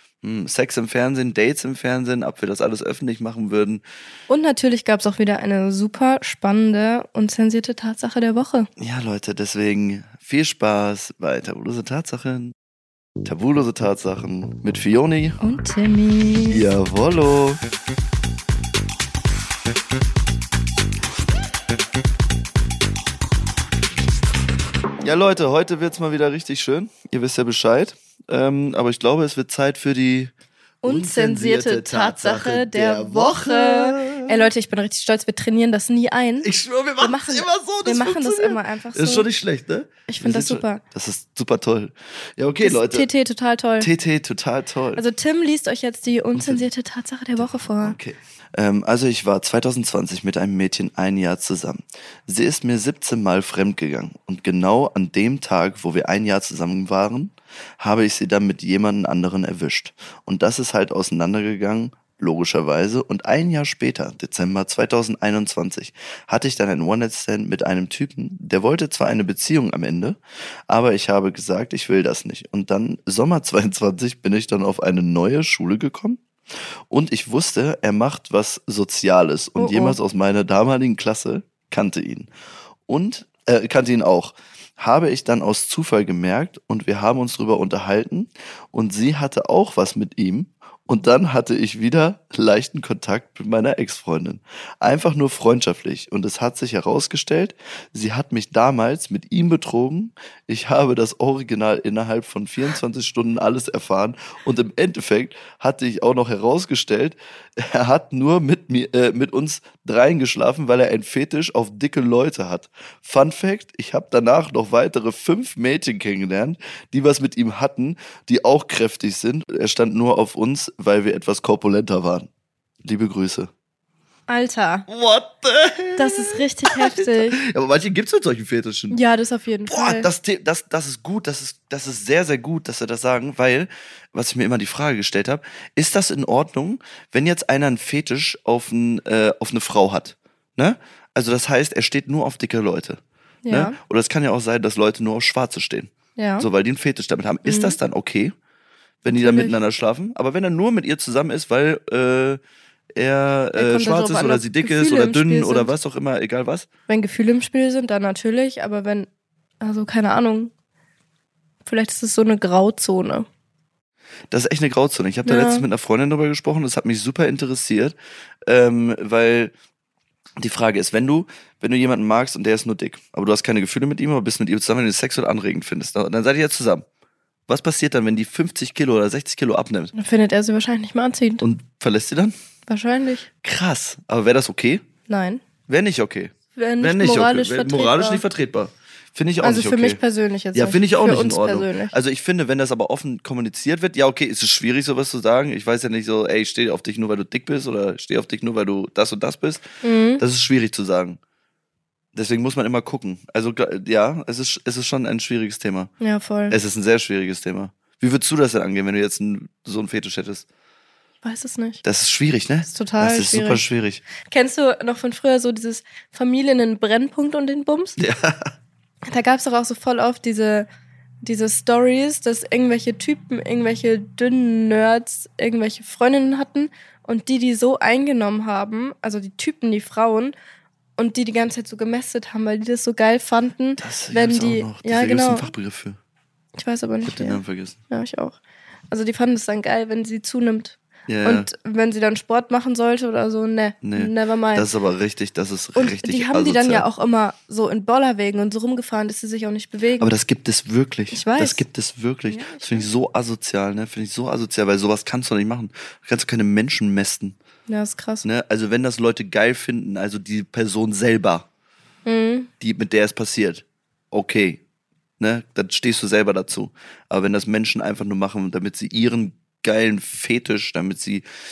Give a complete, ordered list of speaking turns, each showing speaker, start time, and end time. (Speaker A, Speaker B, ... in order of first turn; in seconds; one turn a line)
Speaker A: 0.2-3.8
Speaker B: 4.3-8.7
Speaker A: 8.8-12.6
Speaker A: 13.2-15.4
Speaker B: 15.4-16.6
Speaker A: 16.5-17.6
Speaker A: 25.0-30.3
Speaker B: 30.8-36.5
Speaker A: 30.9-34.5
Speaker A: 36.4-43.1
Speaker B: 37.0-39.3
Speaker B: 40.1-40.8
Speaker B: 42.6-43.9
Speaker A: 43.8-45.0
Speaker B: 45.0-48.0
Speaker A: 46.3-46.7
Speaker A: 47.4-76.2
Speaker A: 76.9-82.3
Speaker B: 79.6-80.0
Speaker A: 82.9-122.3
Speaker A: 122.8-123.5
Speaker B: 124.3-124.9
Speaker A: 124.9-129.0
Speaker B: 126.0-127.4
Speaker B: 128.9-130.1
Speaker A: 129.7-148.3
Speaker B: 143.4-143.8
Speaker B: 146.2-146.5
Speaker B: 147.4-147.8
Speaker A: 149.0-152.4
Speaker B: 149.1-149.6
Speaker A: 153.0-156.7
Speaker B: 153.6-155.7
Speaker B: 156.9-159.1
Speaker B: 159.6-160.5
Speaker B: 161.7-163.3
Speaker A: 164.3-167.9
Speaker B: 165.2-165.7
Speaker A: 168.5-169.5
Speaker A: 170.4-176.9
Speaker A: 177.5-179.9
Speaker B: 179.9-181.4
Speaker A: 181.4-182.3
Speaker B: 182.7-183.3
Speaker A: 183.4-184.8
Speaker B: 185.1-185.4
Speaker A: 185.7-190.0
Speaker B: 186.6-188.2
Speaker B: 189.4-191.9
Speaker A: 190.5-199.7
Speaker B: 199.8-200.2
Speaker A: 200.2-201.2
Speaker A: 202.2-205.9
Speaker B: 206.0-206.6
Speaker A: 206.5-210.5
Speaker B: 211.2-211.8
Speaker A: 211.8-214.0
Speaker B: 212.7-213.7
Speaker B: 214.2-218.0
Speaker A: 218.0-218.5
Speaker B: 219.1-220.7
Speaker B: 221.2-230.3
Speaker B: 231.0-235.5
Speaker A: 233.8-236.0
Speaker B: 236.6-237.4
Speaker A: 237.0-237.8
Speaker B: 237.9-238.4
Speaker B: 238.9-244.7
Speaker A: 241.1-241.5
Speaker A: 243.8-246.9
Speaker B: 245.8-250.1
Speaker A: 250.0-257.4
Speaker B: 251.1-251.7
Speaker B: 252.3-252.9
Speaker B: 257.7-258.2
Speaker A: 258.2-261.5
Speaker B: 262.1-262.5
Speaker A: 262.6-264.6
Speaker A: 265.2-271.2